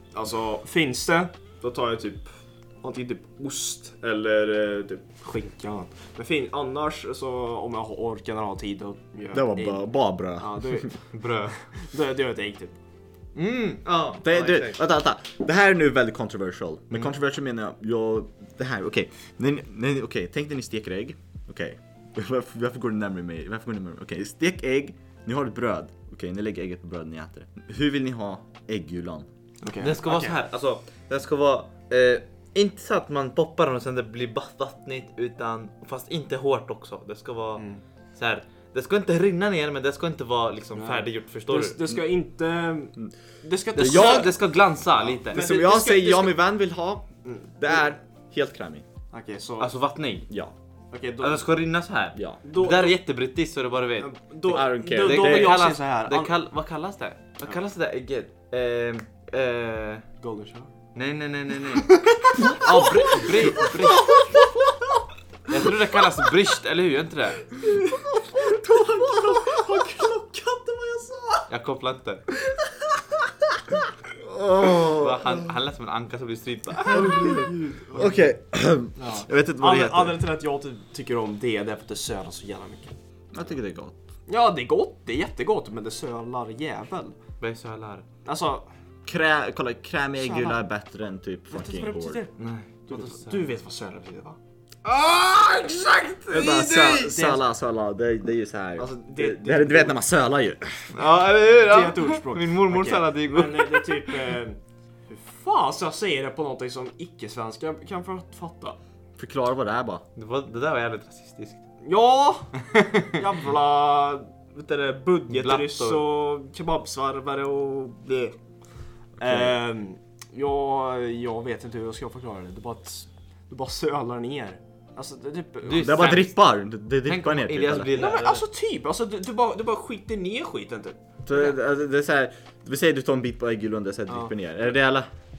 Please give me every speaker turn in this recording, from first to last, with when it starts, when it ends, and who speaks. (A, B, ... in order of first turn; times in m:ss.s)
0:00.1-0:02.3 A
0:02.8-0:11.1 A
0:09.3-0:10.9 B
0:11.1-0:11.7 C
0:11.6-0:12.8 A
0:13.4-0:14.8 C
0:14.2-0:29.3 B
0:29.6-0:30.4 A
0:29.8-0:37.6 C
0:38.2-0:41.8 C
0:40.8-0:44.4 A
0:43.8-0:44.3 B
0:43.8-0:45.4 C
0:45.0-0:46.4 A
0:45.3-0:48.8 B
0:47.2-0:47.8 A
0:49.1-0:49.7 A
0:49.6-0:50.3 C
0:50.9-0:51.5 A
0:51.2-1:00.0 C
0:52.4-0:53.0 A
0:54.0-0:56.3 A
0:54.5-0:55.6 B
1:00.2-1:00.7 A
1:01.0-1:04.2 C
1:02.3-1:04.2 A
1:05.5-1:07.6 C
1:07.6-1:11.5 A
1:11.5-1:12.2 C
1:14.2-1:15.5 B
1:14.8-1:17.5 C
1:16.9-1:18.2 A
1:16.9-1:20.2 B
1:19.0-1:22.9 A
1:23.3-1:24.0 B
1:24.3-1:27.2 A
1:27.4-1:28.1 C
1:28.2-1:28.7 A
1:29.1-1:32.2 B
1:30.2-1:30.6 A
1:31.5-1:32.4 A
1:32.4-1:33.5 C
1:32.9-1:34.4 A
1:34.9-1:37.1 C
1:36.3-1:40.8 B
1:36.8-1:37.4 A
1:38.8-1:40.0 A
1:40.9-1:44.2 C
1:41.6-1:48.8 A
1:49.2-1:50.0 B
1:50.2-1:51.6 C
1:51.8-1:58.4 A
1:52.6-1:53.2 C
1:55.3-1:56.0 C
1:59.2-1:59.6 B
1:59.2-2:06.3 A
2:05.6-2:06.3 C
2:05.8-2:07.9 B
2:07.0-2:08.4 C
2:08.0-2:11.5 A
2:11.3-2:15.1 B